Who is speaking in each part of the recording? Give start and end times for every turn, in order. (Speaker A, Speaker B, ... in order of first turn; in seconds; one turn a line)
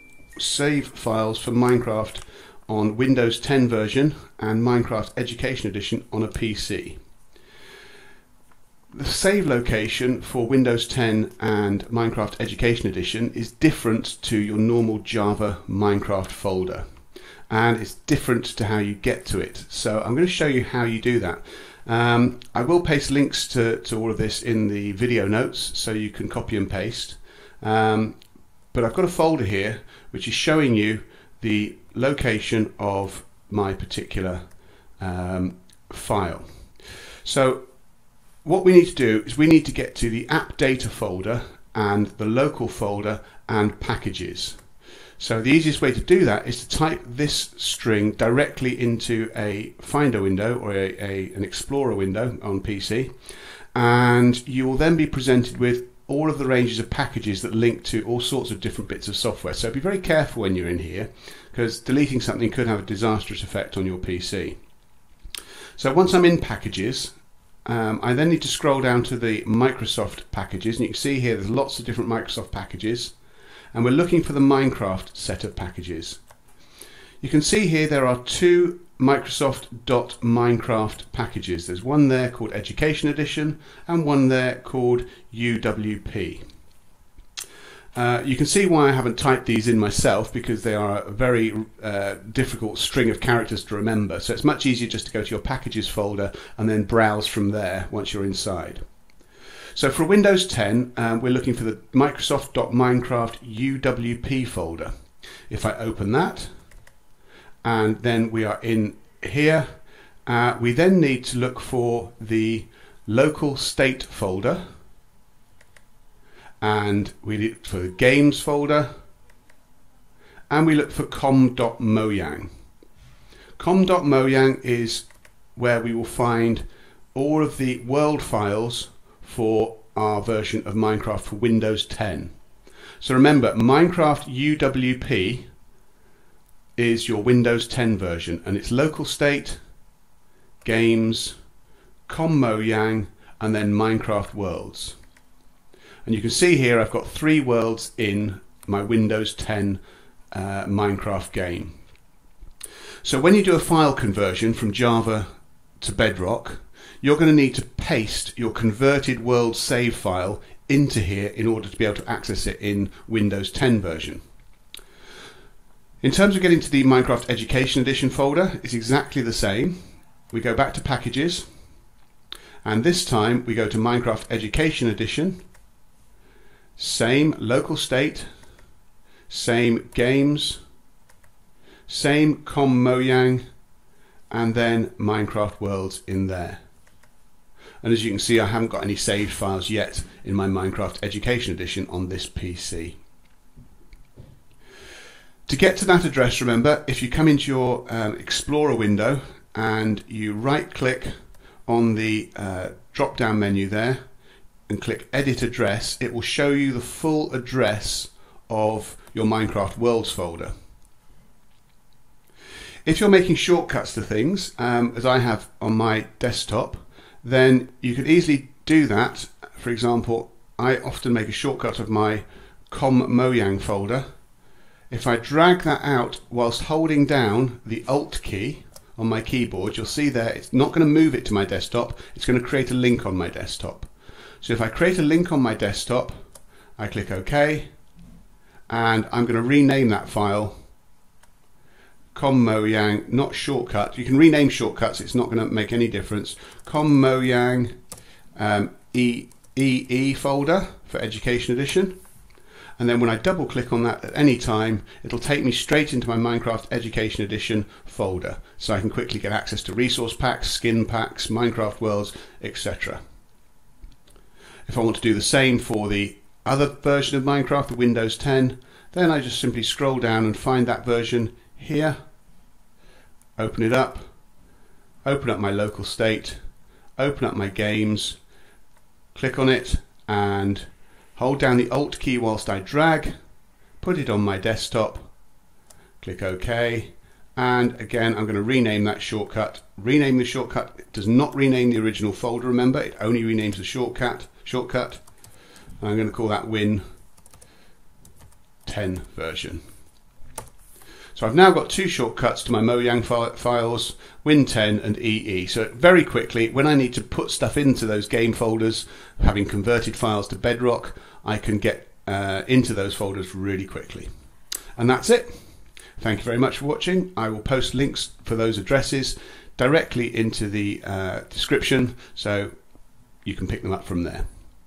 Speaker A: 0.4-7.0
Speaker A: 8.9-16.9
Speaker A: 17.5-28.2
Speaker A: 28.7-34.4
Speaker A: 35.0-36.5
Speaker A: 37.2-37.6
Speaker A: 38.4-44.6
Speaker A: 45.2-53.1
Speaker A: 53.8-64.6
Speaker A: 65.8-67.1
Speaker A: 67.7-73.1
Speaker A: 73.7-76.2
Speaker A: 77.2-86.4
Speaker A: 88.0-98.8
Speaker A: 99.8-104.9
Speaker A: 105.5-106.5
Speaker A: 107.6-109.7
Speaker A: 110.3-114.6
Speaker A: 116.6-118.9
Speaker A: 120.5-122.5
Speaker A: 123.6-132.3
Speaker A: 133.0-135.5
Speaker A: 136.8-139.6
Speaker A: 140.6-141.4
Speaker A: 142.1-145.0
Speaker A: 146.1-149.8
Speaker A: 150.3-151.8
Speaker A: 153.0-155.3
Speaker A: 155.8-164.2
Speaker A: 166.0-169.8
Speaker A: 170.3-171.5
Speaker A: 172.6-175.4
Speaker A: 176.8-178.3
Speaker A: 179.3-180.6
Speaker A: 181.9-183.4
Speaker A: 184.3-186.6
Speaker A: 187.8-193.0
Speaker A: 195.5-201.1
Speaker A: 201.7-204.0
Speaker A: 204.7-210.5
Speaker A: 212.9-224.1
Speaker A: 224.9-233.9
Speaker A: 234.4-236.2
Speaker A: 236.8-237.7
Speaker A: 238.7-240.6
Speaker A: 242.1-247.7
Speaker A: 248.4-251.9
Speaker A: 252.8-263.0
Speaker A: 264.7-272.0
Speaker A: 273.4-274.1
Speaker A: 275.1-276.4
Speaker A: 277.0-278.2
Speaker A: 279.1-283.1
Speaker A: 283.8-285.1
Speaker A: 286.0-295.0
Speaker A: 295.8-296.8
Speaker A: 298.6-299.6
Speaker A: 301.1-314.1
Speaker A: 314.8-315.4
Speaker A: 316.0-322.5
Speaker A: 323.2-324.3